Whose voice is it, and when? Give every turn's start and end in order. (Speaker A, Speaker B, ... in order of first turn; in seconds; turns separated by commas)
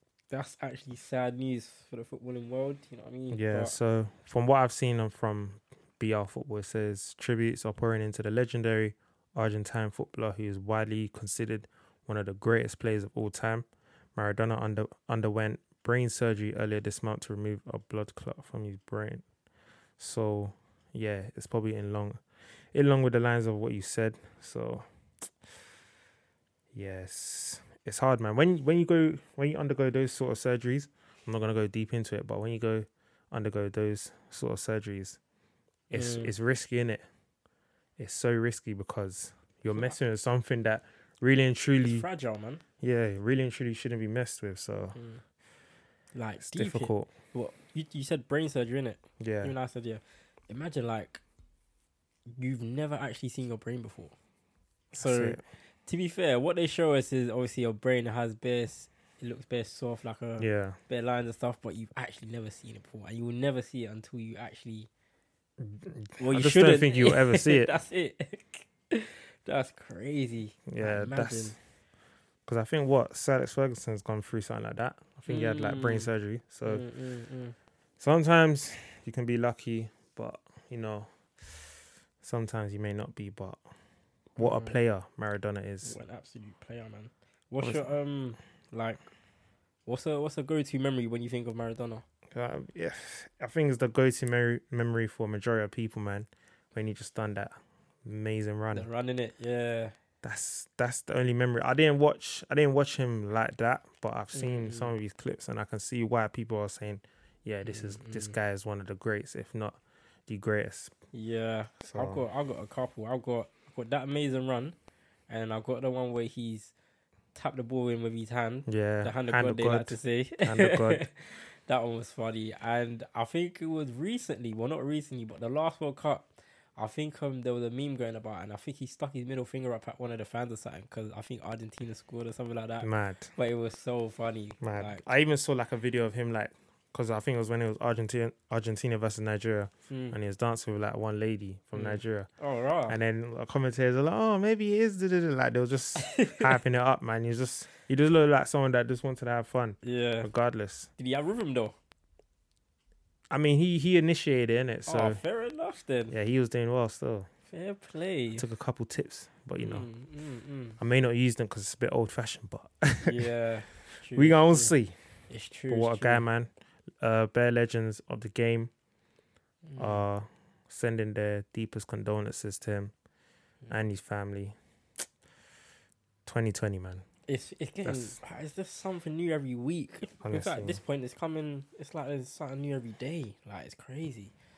Speaker A: 0.3-3.8, Speaker B: 3.3-19.2, Speaker B: 20.0-22.2, Speaker B: 22.7-24.9, Speaker B: 26.7-35.2, Speaker B: 35.9-37.0, Speaker A: 35.9-36.3, Speaker B: 38.0-42.0, Speaker A: 41.8-42.6, Speaker B: 42.8-45.0, Speaker A: 44.9-45.2, Speaker A: 46.1-51.2, Speaker B: 46.4-47.1, Speaker B: 49.2-49.5, Speaker A: 52.3-54.1, Speaker B: 54.9-55.4, Speaker A: 54.9-64.9, Speaker B: 60.4-60.8, Speaker B: 65.6-67.7, Speaker A: 66.2-71.6, Speaker B: 70.7-71.5, Speaker B: 72.5-76.8, Speaker A: 75.3-76.1, Speaker A: 76.7-77.5, Speaker B: 78.0-81.7, Speaker B: 82.2-83.6, Speaker A: 84.4-84.8, Speaker B: 84.4-86.0, Speaker A: 85.8-89.0, Speaker B: 87.6-87.9, Speaker A: 89.8-92.0, Speaker B: 92.3-98.9, Speaker A: 98.7-99.9, Speaker B: 100.2-110.9, Speaker A: 104.3-105.0, Speaker A: 107.7-108.3, Speaker A: 111.1-114.7, Speaker B: 111.8-112.2, Speaker A: 115.3-116.7, Speaker A: 117.3-135.1, Speaker B: 118.7-121.1, Speaker B: 132.8-133.3, Speaker B: 134.6-142.3, Speaker A: 139.9-140.2, Speaker A: 141.7-143.0, Speaker B: 142.9-150.9, Speaker A: 146.0-146.5, Speaker A: 149.8-150.3, Speaker A: 151.0-151.7, Speaker B: 153.3-155.2, Speaker A: 154.8-156.2, Speaker B: 156.1-157.3, Speaker A: 157.5-158.5, Speaker B: 158.3-159.9, Speaker A: 159.6-160.8, Speaker B: 160.8-163.2, Speaker A: 163.0-164.7, Speaker B: 164.2-164.9, Speaker A: 165.3-166.2, Speaker B: 165.7-168.7, Speaker A: 169.7-170.0, Speaker B: 169.8-172.9, Speaker B: 173.7-174.5, Speaker B: 176.2-177.1, Speaker A: 177.3-184.3, Speaker B: 177.8-178.2, Speaker B: 180.2-180.8